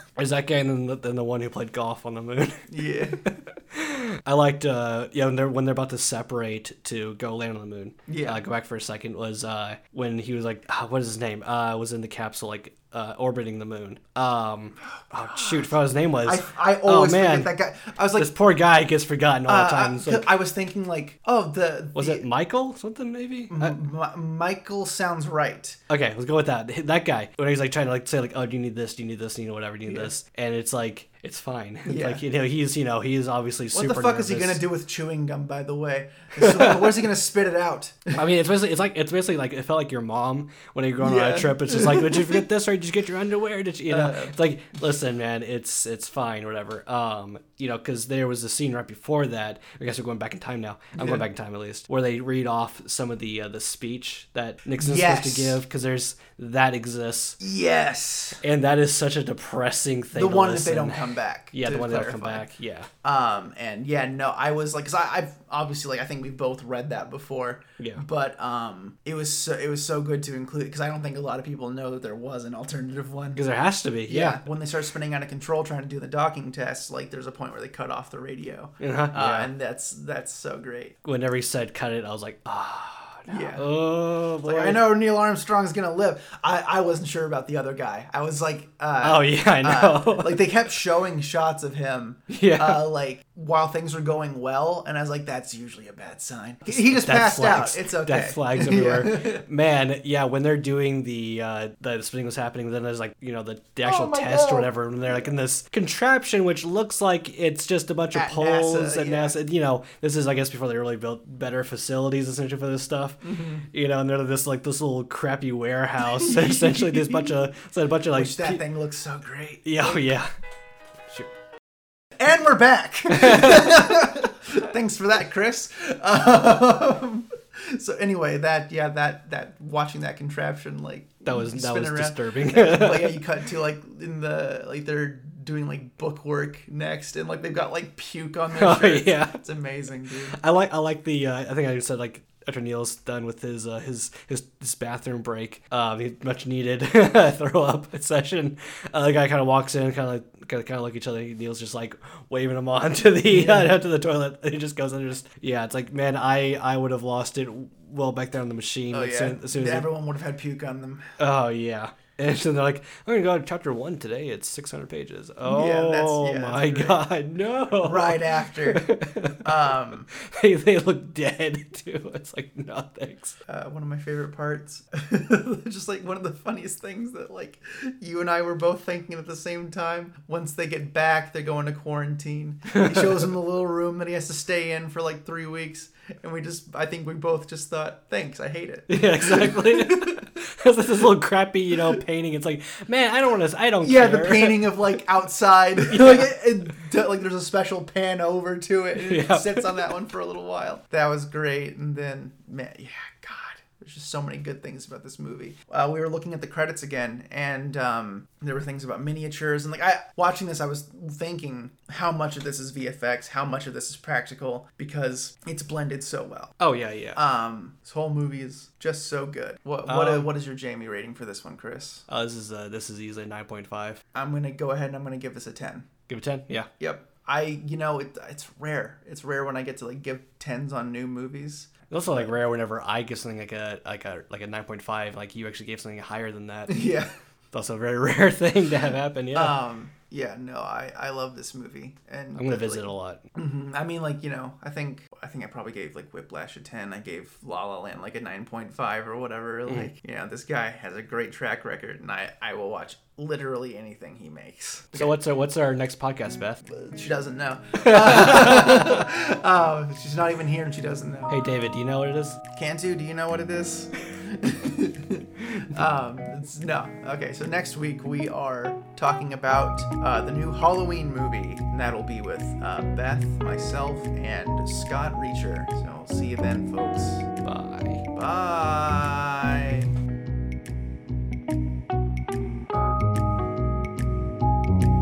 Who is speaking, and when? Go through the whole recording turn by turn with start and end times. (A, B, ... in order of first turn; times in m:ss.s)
0:00.2-0:02.7 A
0:02.7-0:03.2 B
0:03.2-0:17.5 A
0:08.1-0:08.4 B
0:15.1-0:15.7 B
0:16.2-0:18.3 B
0:18.2-0:20.3 A
0:19.5-0:22.2 B
0:22.0-0:23.8 A
0:23.5-0:25.8 B
0:25.9-0:34.6 A
0:29.9-0:30.1 B
0:31.9-0:32.2 B
0:33.7-0:38.2 B
0:36.4-0:37.0 A
0:38.1-0:57.4 A
0:41.0-0:42.4 B
0:43.9-0:44.3 B
0:51.0-0:51.3 B
0:54.8-0:55.6 B
0:57.4-0:58.4 B
0:58.4-1:02.9 A
1:00.1-1:02.5 B
1:03.0-1:13.4 B
1:07.8-1:08.0 A
1:13.4-1:14.4 A
1:14.1-1:21.0 B
1:18.8-1:19.5 A
1:21.0-1:24.9 A
1:23.3-1:23.7 B
1:24.4-1:39.4 B
1:29.0-1:30.4 A
1:32.3-1:32.8 A
1:36.7-1:58.6 A
1:43.8-1:45.3 B
1:48.1-1:49.4 B
1:53.2-1:53.7 B
1:56.0-1:57.3 B
1:58.1-2:00.1 B
1:59.6-2:00.3 A
2:02.2-2:20.4 B
2:03.2-2:03.5 A
2:11.2-2:13.2 A
2:18.6-2:19.4 A
2:20.4-2:39.9 A
2:33.3-2:33.8 B
2:38.9-2:41.1 B
2:41.2-2:49.5 A
2:45.4-2:47.0 B
2:47.8-2:48.9 B
2:49.4-2:50.1 B
2:50.2-2:53.4 A
2:53.5-3:10.3 B
3:02.7-3:03.2 A
3:08.9-3:14.8 A
3:13.8-3:36.6 B
3:15.8-3:16.3 A
3:19.0-3:19.9 A
3:36.6-3:37.2 A
3:37.2-3:42.0 B
3:39.9-3:40.3 A
3:42.1-3:44.0 A
3:44.1-3:45.9 B
3:46.1-3:46.7 A
3:46.8-3:52.3 B
3:51.9-3:56.9 A
3:56.7-3:57.1 B
3:57.5-3:59.6 A
3:59.3-4:15.2 B
4:02.4-4:03.2 A
4:14.9-4:16.6 A
4:16.7-4:21.4 B
4:17.8-4:19.0 A
4:21.3-4:22.4 A
4:22.5-4:37.3 B
4:37.4-4:38.0 A
4:38.1-4:39.9 B